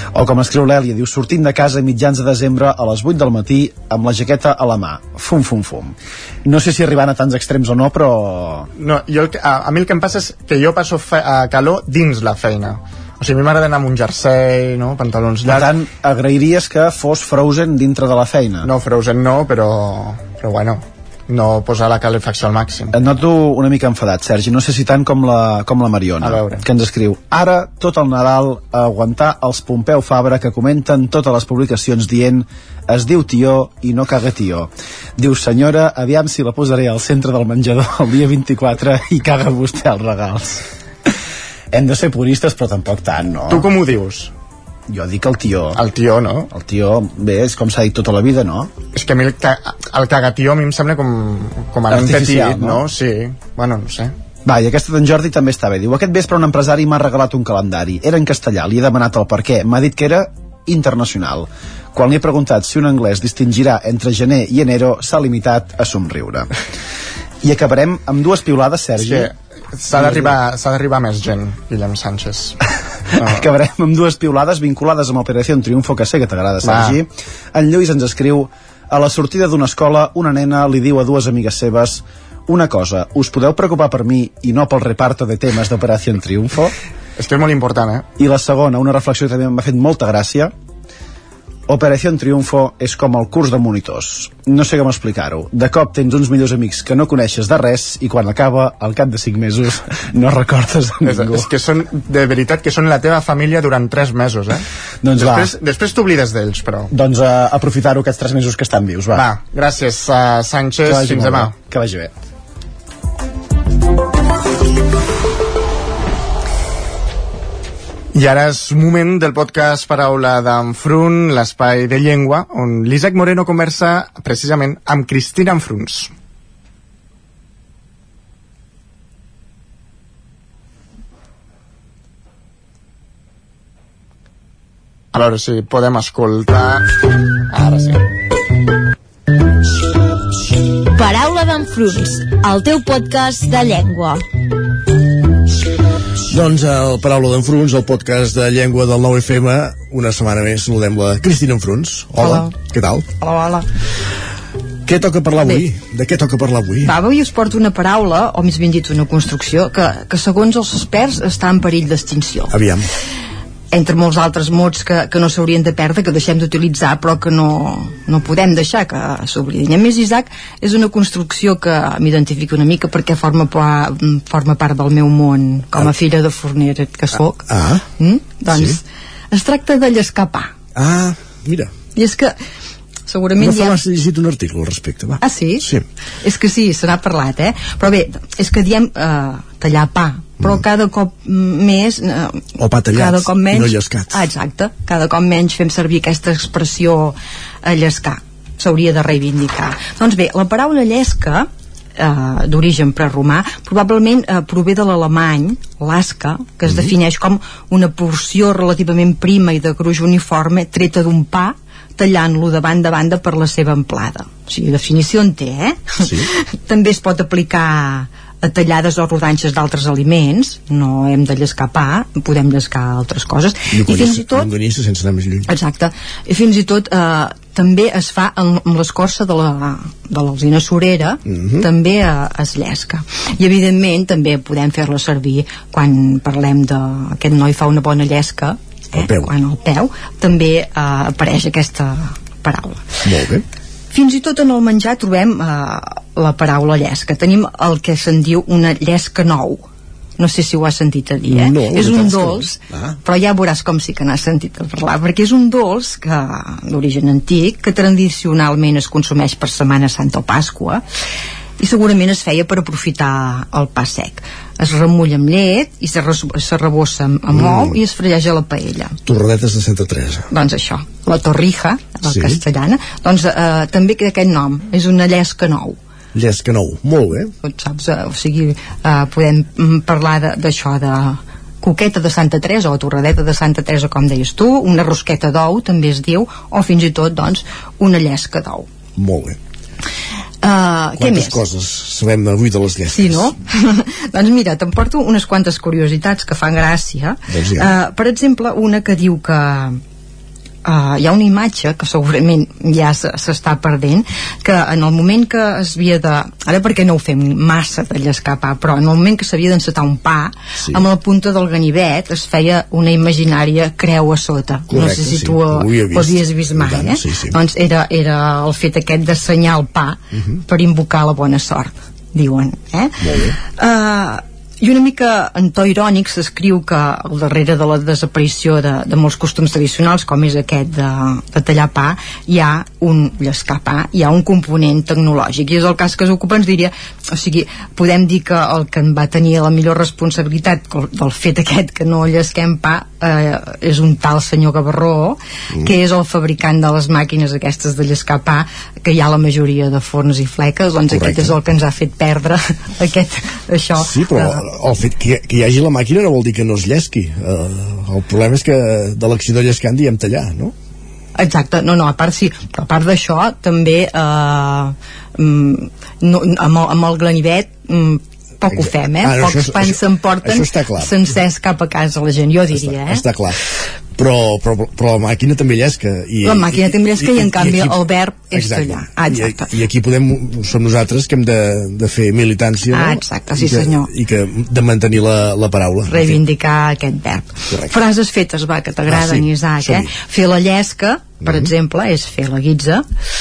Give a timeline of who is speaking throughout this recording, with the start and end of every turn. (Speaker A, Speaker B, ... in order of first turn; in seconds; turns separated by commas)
Speaker A: 0.1-8.7, Speaker B: 8.8-15.7, Speaker A: 15.4-18.7, Speaker B: 18.6-22.9, Speaker A: 22.9-40.6, Speaker B: 26.2-26.6, Speaker A: 41.7-43.7, Speaker B: 43.5-44.3, Speaker A: 44.9-45.8, Speaker B: 45.8-46.5, Speaker A: 46.5-48.7, Speaker B: 49.0-54.1, Speaker A: 51.9-52.8, Speaker A: 54.5-66.5, Speaker A: 67.4-69.3, Speaker B: 69.0-72.6, Speaker A: 70.0-70.3, Speaker B: 73.2-73.5, Speaker A: 73.2-86.7, Speaker B: 76.6-77.0, Speaker B: 87.2-88.1, Speaker A: 88.2-90.5, Speaker A: 91.7-101.5, Speaker B: 101.0-104.6, Speaker A: 105.0-105.5, Speaker B: 105.2-106.9, Speaker A: 106.9-109.3, Speaker B: 109.2-111.5, Speaker A: 110.9-112.1, Speaker B: 118.1-126.1, Speaker B: 135.1-136.9, Speaker B: 137.5-138.1, Speaker C: 141.0-144.2, Speaker D: 146.3-153.0, Speaker E: 152.2-152.5, Speaker E: 153.2-153.6, Speaker D: 154.9-157.0, Speaker E: 156.8-162.5, Speaker D: 162.5-162.9, Speaker E: 163.7-177.4, Speaker D: 177.1-177.8, Speaker E: 178.0-178.8, Speaker D: 178.5-178.8, Speaker E: 179.3-180.5, Speaker D: 180.8-181.7, Speaker E: 182.0-182.3, Speaker E: 183.1-183.8, Speaker D: 183.4-185.8, Speaker E: 185.2-185.7, Speaker E: 186.2-224.5, Speaker D: 192.6-194.3, Speaker D: 216.0-216.3, Speaker D: 223.7-225.5, Speaker E: 225.5-242.9, Speaker D: 231.3-231.7, Speaker D: 238.9-239.3, Speaker D: 243.1-243.4, Speaker E: 243.9-249.7, Speaker E: 250.2-260.8, Speaker D: 251.2-253.0, Speaker E: 261.6-268.9, Speaker D: 267.3-267.8, Speaker D: 269.1-270.2, Speaker E: 270.3-275.8, Speaker D: 272.0-272.4, Speaker D: 276.1-277.3, Speaker E: 277.4-288.7, Speaker D: 289.0-289.4, Speaker E: 290.4-291.5, Speaker D: 290.9-293.4, Speaker E: 292.9-299.8, Speaker D: 297.3-297.8, Speaker E: 300.6-322.9, Speaker D: 310.6-310.9, Speaker D: 314.7-317.4, Speaker D: 320.1-320.4, Speaker D: 323.0-323.4, Speaker E: 323.5-354.4, Speaker D: 350.9-351.4, Speaker D: 353.8-360.5, Speaker E: 361.2-373.1, Speaker D: 368.5-371.2, Speaker D: 372.4-373.4, Speaker D: 373.9-386.3, Speaker E: 376.2-379.5, Speaker E: 382.7-383.9, Speaker E: 385.9-392.9, Speaker D: 387.5-387.9, Speaker D: 388.9-389.9, Speaker D: 391.2-391.5